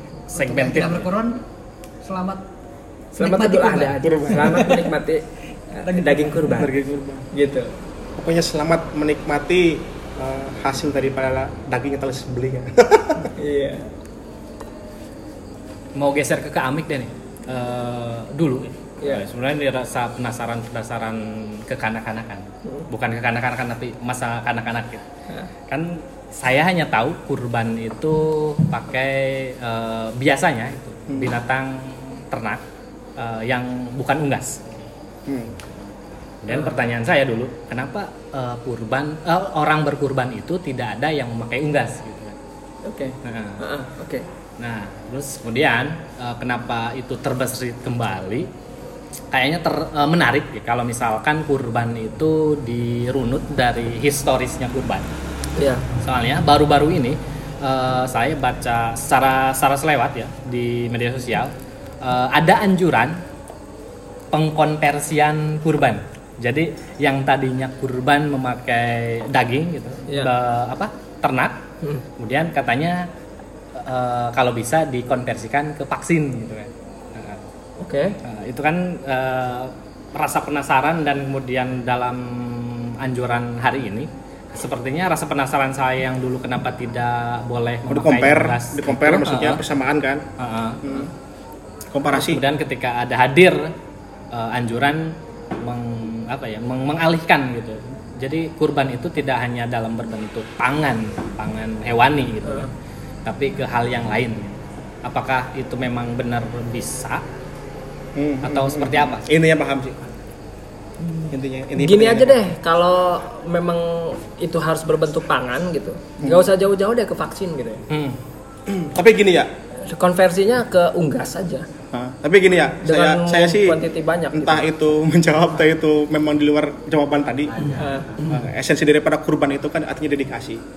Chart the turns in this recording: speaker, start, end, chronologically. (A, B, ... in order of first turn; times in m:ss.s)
0:00.3-0:01.0 A
0:00.3-0:01.4 B
0:02.0-0:02.4 B
0:03.1-0:05.2 C
0:03.2-0:04.6 B
0:04.0-0:04.8 D
0:05.7-0:06.7 C
0:05.8-0:06.6 B
0:06.4-0:07.3 D
0:07.3-0:07.7 C
0:08.2-0:13.3 D
0:13.4-0:13.9 C
0:16.0-0:25.0 A
0:25.7-0:32.6 A
0:33.2-0:34.7 A
0:35.3-0:35.5 D
0:36.4-0:42.4 A
0:42.8-0:44.2 C
0:43.2-0:43.6 A
0:44.6-0:48.5 A
0:49.3-0:55.0 A
0:55.6-0:55.8 C
0:56.0-1:03.2 A
1:04.3-1:11.6 A
1:12.2-1:13.1 A
1:13.8-1:17.4 A
1:17.8-1:18.2 C
1:18.2-1:29.6 A
1:27.9-1:30.2 D
1:30.4-1:31.1 A
1:30.8-1:31.1 D
1:31.9-1:32.4 D
1:32.1-1:33.7 A
1:34.3-1:42.7 A
1:43.2-1:47.2 A
1:48.2-1:50.0 D
1:48.4-1:49.3 A
1:51.0-1:57.8 C
1:51.3-1:52.5 D
1:57.9-1:58.2 A
1:58.7-1:59.5 D
1:59.8-2:01.6 C
2:01.9-2:03.8 D
2:02.8-2:04.6 C
2:04.3-2:10.6 D
2:07.8-2:08.2 C